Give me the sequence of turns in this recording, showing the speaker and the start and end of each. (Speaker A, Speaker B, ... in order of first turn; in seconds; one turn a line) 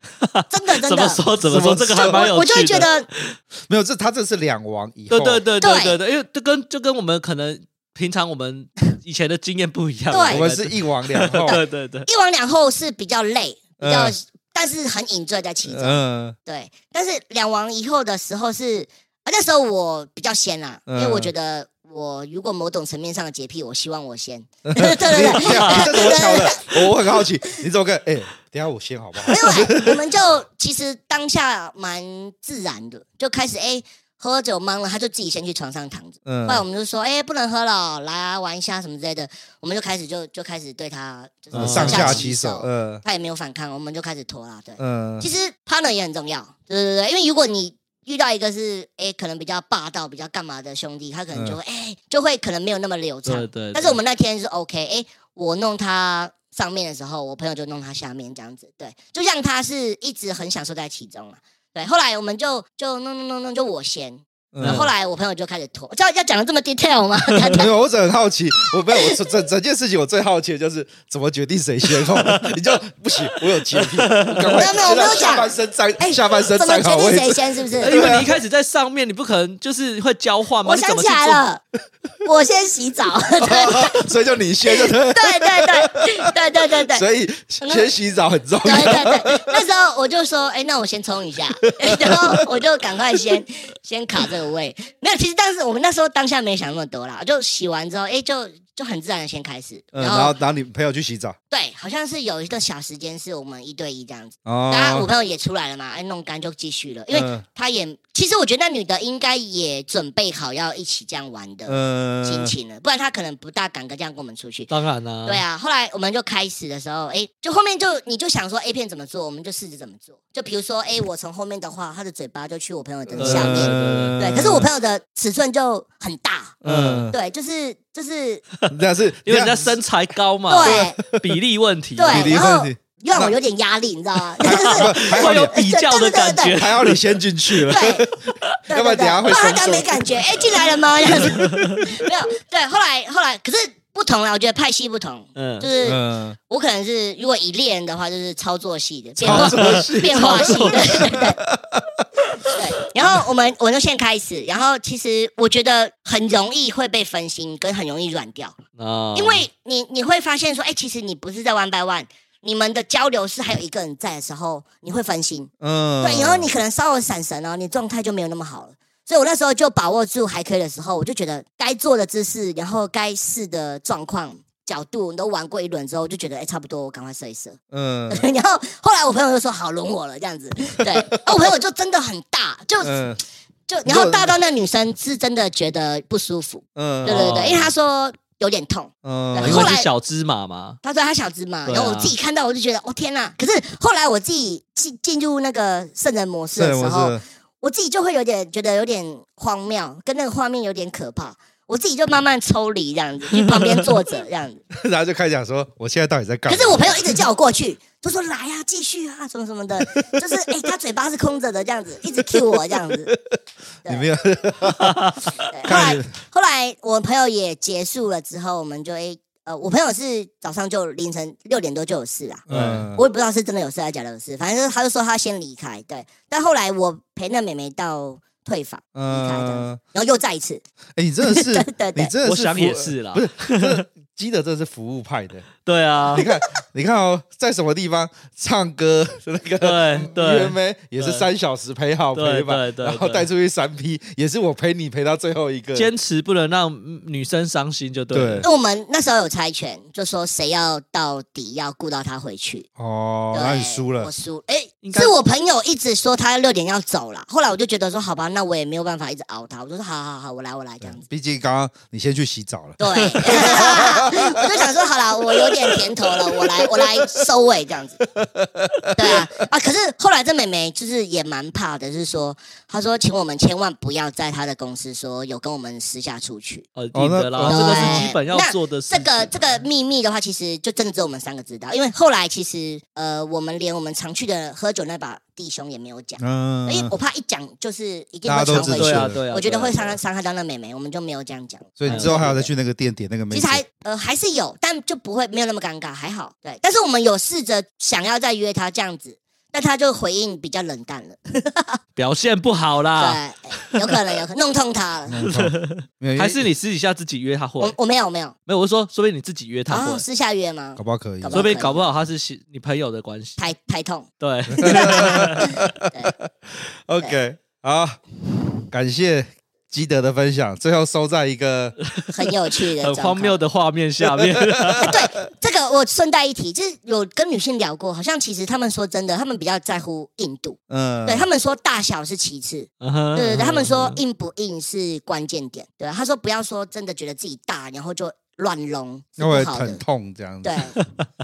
Speaker A: 0.2-3.4
Speaker B: 0.5-1.3
Speaker C: 1.4-2.3
Speaker B: 2.0-3.1
Speaker C: 3.7-5.4
Speaker A: 5.1-12.1
Speaker B: 5.6-6.0
Speaker B: 10.1-10.5
Speaker C: 10.3-11.6
Speaker B: 11.4-26.9
Speaker C: 13.8-14.2
Speaker C: 15.7-16.4
Speaker C: 20.9-21.3
Speaker C: 24.7-30.0
Speaker A: 25.4-25.9
Speaker B: 29.2-67.7
Speaker C: 36.2-36.7
Speaker A: 41.5-42.3
Speaker C: 41.6-43.0
Speaker C: 44.8-45.3
Speaker A: 53.2-54.0
Speaker C: 64.5-64.9
Speaker A: 64.6-64.9
Speaker C: 67.5-78.3
Speaker B: 68.9-69.2
Speaker A: 72.2-72.5
Speaker A: 73.7-74.6
Speaker B: 74.5-78.2
Speaker A: 77.8-81.5
Speaker B: 80.6-81.6
Speaker B: 82.2-84.0
Speaker C: 83.4-89.6
Speaker B: 84.7-87.0
Speaker B: 87.6-87.9
Speaker B: 88.6-100.4
Speaker C: 91.6-93.4
Speaker C: 99.9-101.4
Speaker B: 101.5-114.7
Speaker C: 104.5-105.1
Speaker C: 107.1-107.4
Speaker C: 111.7-112.5
Speaker A: 114.7-115.4
Speaker B: 115.2-126.6
Speaker C: 123.1-124.7
Speaker A: 123.2-124.2
Speaker C: 126.6-127.2
Speaker A: 126.7-127.1
Speaker B: 127.1-128.4
Speaker C: 128.7-129.8
Speaker A: 129.2-132.4
Speaker B: 130.5-131.0
Speaker C: 130.6-131.2
Speaker B: 132.0-136.6
Speaker C: 132.1-133.3
Speaker A: 134.4-137.0
Speaker C: 134.5-135.6
Speaker C: 136.5-138.1
Speaker B: 137.7-138.1
Speaker C: 138.7-141.6
Speaker B: 138.7-151.4
Speaker A: 141.1-141.9
Speaker A: 145.3-145.7
Speaker C: 145.8-146.4
Speaker A: 149.2-151.2
Speaker C: 149.2-152.6
Speaker B: 152.5-158.6
Speaker A: 158.8-159.5
Speaker B: 159.2-165.5
Speaker C: 165.6-166.5
Speaker B: 166.0-177.6
Speaker C: 177.7-178.2
Speaker B: 178.1-183.1
Speaker C: 180.9-181.1
Speaker C: 182.8-183.2
Speaker B: 183.7-189.9
Speaker C: 183.9-184.4
Speaker C: 186.8-187.7
Speaker A: 187.1-187.7
Speaker C: 189.0-189.7
Speaker A: 189.4-190.8
Speaker B: 190.8-204.6
Speaker A: 191.7-192.2
Speaker C: 196.5-197.2
Speaker C: 204.7-207.2
Speaker B: 206.5-213.1
Speaker C: 212.3-213.2
Speaker B: 213.8-214.1
Speaker C: 213.9-215.0
Speaker A: 214.7-216.0
Speaker B: 215.5-222.4
Speaker C: 215.6-216.1
Speaker C: 222.5-223.1
Speaker A: 222.5-222.9
Speaker B: 223.0-230.6
Speaker C: 228.9-229.8
Speaker C: 231.0-235.5
Speaker B: 231.2-232.1
Speaker A: 232.2-233.8
Speaker A: 235.7-236.3
Speaker C: 236.1-245.9
Speaker B: 236.2-236.4
Speaker A: 239.6-241.3
Speaker A: 242.1-243.3
Speaker A: 245.8-248.5
Speaker C: 248.1-248.5
Speaker B: 248.4-252.7
Speaker C: 252.8-254.1
Speaker B: 253.3-261.0
Speaker A: 254.8-255.2
Speaker C: 260.9-264.7
Speaker B: 262.8-268.0
Speaker C: 265.3-267.2
Speaker C: 268.2-269.3
Speaker B: 269.0-276.7
Speaker A: 276.8-279.6
Speaker C: 276.9-278.1
Speaker B: 277.4-292.5
Speaker C: 286.2-286.9
Speaker C: 288.3-289.2
Speaker A: 288.6-290.0
Speaker C: 291.8-293.6
Speaker A: 291.9-292.4
Speaker B: 293.3-301.8
Speaker A: 302.0-304.0
Speaker B: 303.0-305.2
Speaker C: 305.1-306.5
Speaker A: 305.3-307.8
Speaker B: 307.6-308.4
Speaker A: 308.5-310.1
Speaker B: 309.7-311.9
Speaker C: 310.8-311.4
Speaker A: 311.3-313.4
Speaker B: 313.4-314.1
Speaker A: 314.2-315.6
Speaker C: 314.6-318.0
Speaker B: 314.6-316.1
Speaker C: 318.7-321.8
Speaker A: 321.9-324.9
Speaker B: 322.1-323.4
Speaker C: 324.0-325.0
Speaker B: 324.8-339.8
Speaker C: 330.7-331.3
Speaker A: 332.8-334.0
Speaker C: 339.2-340.8
Speaker B: 340.4-340.8